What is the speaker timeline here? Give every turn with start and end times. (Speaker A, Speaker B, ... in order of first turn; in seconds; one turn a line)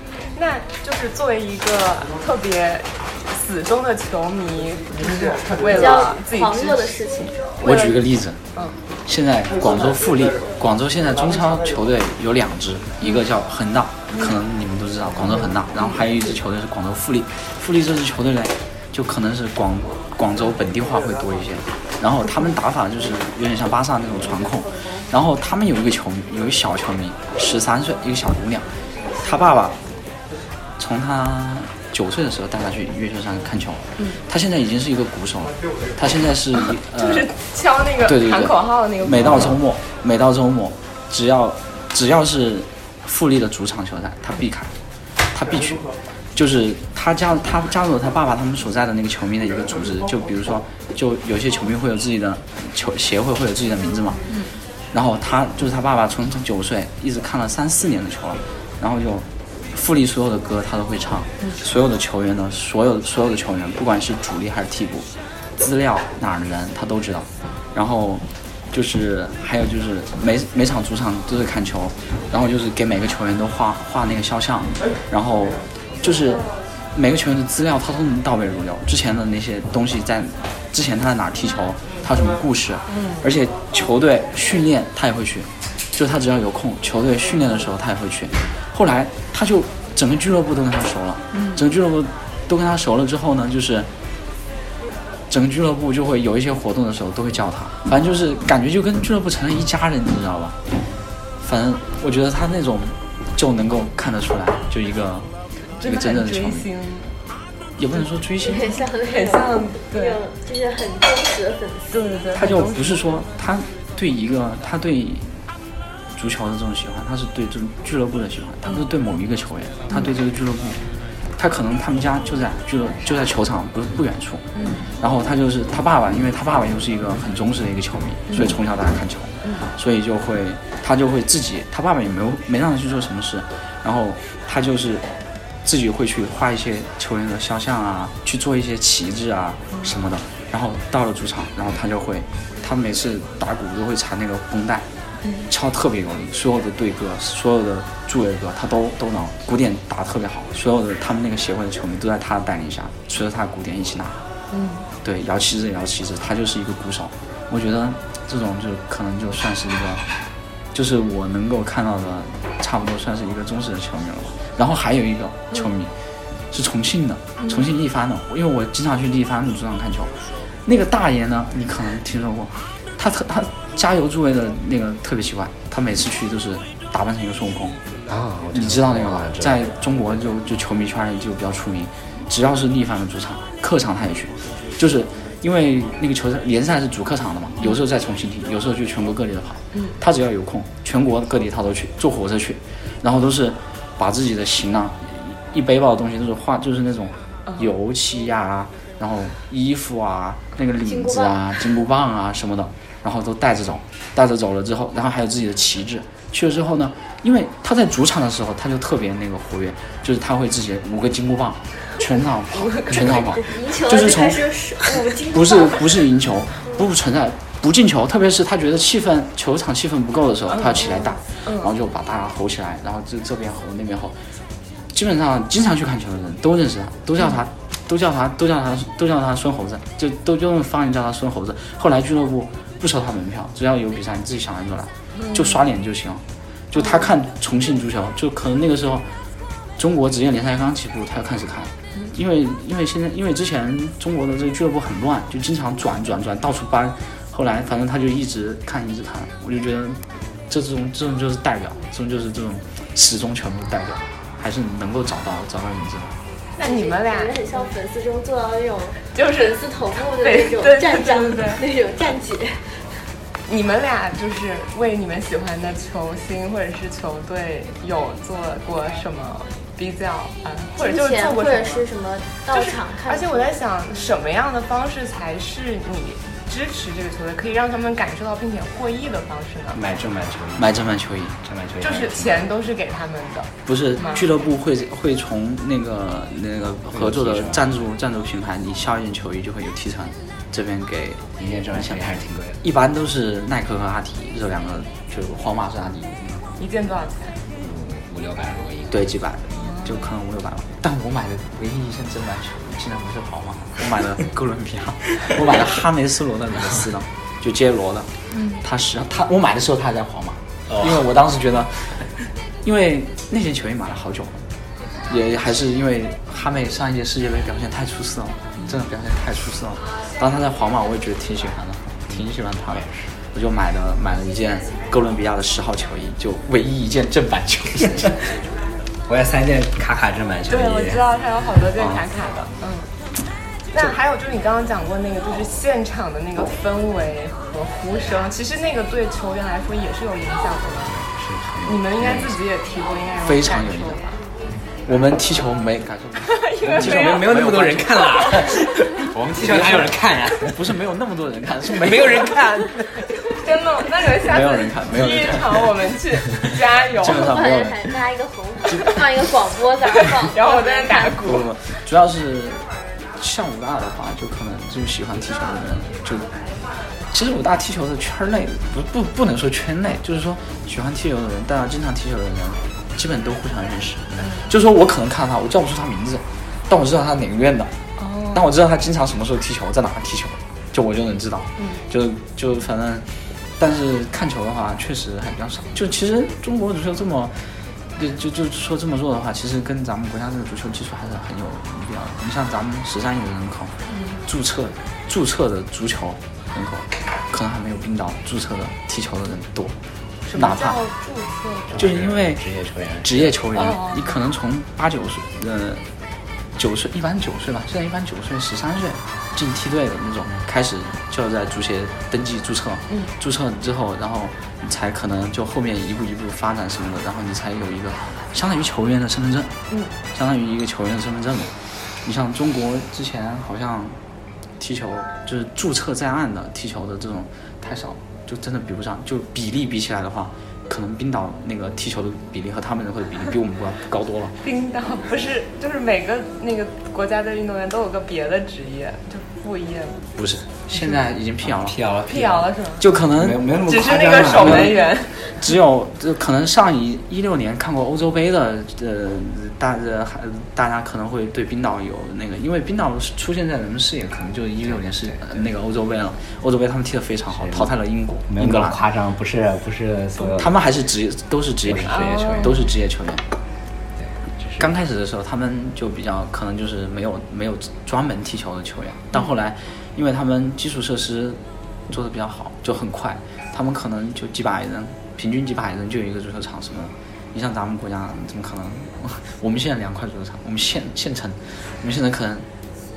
Speaker A: 0.3-7.0
Speaker B: 5.7-7.6
Speaker A: 7.6-8.0
Speaker C: 7.6-8.4
Speaker C: 9.1-29.8
Speaker C: 30.8-37.3
Speaker A: 36.6-39.4
Speaker C: 38.0-44.7
Speaker C: 45.3-54.2
Speaker C: 54.9-93.9
Speaker A: 82.9-83.3
Speaker C: 95.3-100.6
Speaker C: 101.4-105.3
Speaker A: 105.8-107.1
Speaker C: 105.8-106.7
Speaker C: 107.8-108.8
Speaker B: 108.4-112.1
Speaker A: 108.5-110.2
Speaker A: 111.9-113.1
Speaker C: 112.3-115.3
Speaker C: 116.1-120.8
Speaker C: 121.4-124.5
Speaker A: 124.5-124.8
Speaker C: 125.0-135.1
Speaker C: 135.6-144.9
Speaker C: 145.5-154.2
Speaker A: 154.5-154.8
Speaker C: 155.0-160.0
Speaker C: 160.7-165.9
Speaker C: 166.5-177.8
Speaker D: 178.1-179.8
Speaker C: 178.5-224.2
Speaker B: 200.8-201.4
Speaker A: 212.6-212.9
Speaker B: 213.0-216.0
Speaker A: 220.5-221.7
Speaker C: 224.9-239.1
Speaker A: 236.8-237.0
Speaker C: 239.8-256.1
Speaker B: 256.6-262.7
Speaker A: 256.6-257.6
Speaker A: 259.1-259.6
Speaker A: 260.2-261.6
Speaker A: 263.5-271.8
Speaker B: 270.8-273.5
Speaker A: 272.5-279.8
Speaker D: 279.7-282.5
Speaker C: 280.6-281.4
Speaker A: 281.8-284.3
Speaker C: 283.6-296.4
Speaker D: 286.9-287.7
Speaker D: 291.4-292.6
Speaker A: 296.6-297.4
Speaker D: 297.5-299.1
Speaker C: 298.9-314.4
Speaker C: 315.1-328.3
Speaker D: 322.1-323.1
Speaker D: 329.1-331.1
Speaker A: 330.5-332.9
Speaker A: 333.7-340.9
Speaker D: 340.8-342.3
Speaker A: 341.6-344.2
Speaker C: 342.0-342.3
Speaker C: 343.2-344.0
Speaker C: 344.9-348.5
Speaker A: 346.2-347.4
Speaker D: 346.7-350.8
Speaker A: 348.1-348.6
Speaker C: 349.1-352.6
Speaker D: 351.8-352.9
Speaker A: 353.3-357.3
Speaker C: 354.2-355.7
Speaker C: 357.0-358.0
Speaker B: 357.1-361.1
Speaker C: 358.6-359.2
Speaker A: 360.2-361.4
Speaker C: 361.2-366.5
Speaker C: 367.0-377.7
Speaker A: 374.2-374.5
Speaker A: 378.0-378.5
Speaker C: 378.3-383.1
Speaker C: 383.6-399.8
Speaker A: 393.9-394.2
Speaker A: 400.3-401.8
Speaker C: 400.3-400.8
Speaker D: 401.7-403.6
Speaker C: 401.8-402.4
Speaker C: 403.0-405.8
Speaker A: 403.6-404.2
Speaker C: 406.6-419.5
Speaker C: 420.1-424.0
Speaker C: 424.6-434.4
Speaker A: 434.4-440.0
Speaker C: 440.1-441.8
Speaker D: 441.4-442.5
Speaker A: 442.1-442.9
Speaker C: 442.8-443.5
Speaker D: 443.1-444.8
Speaker A: 443.6-445.3
Speaker C: 444.2-444.8
Speaker C: 445.3-458.8
Speaker D: 454.6-455.4
Speaker D: 457.3-457.7
Speaker D: 458.3-460.6
Speaker C: 460.3-463.2
Speaker D: 461.6-462.6
Speaker A: 461.9-462.6
Speaker D: 464.0-464.8
Speaker C: 464.6-482.5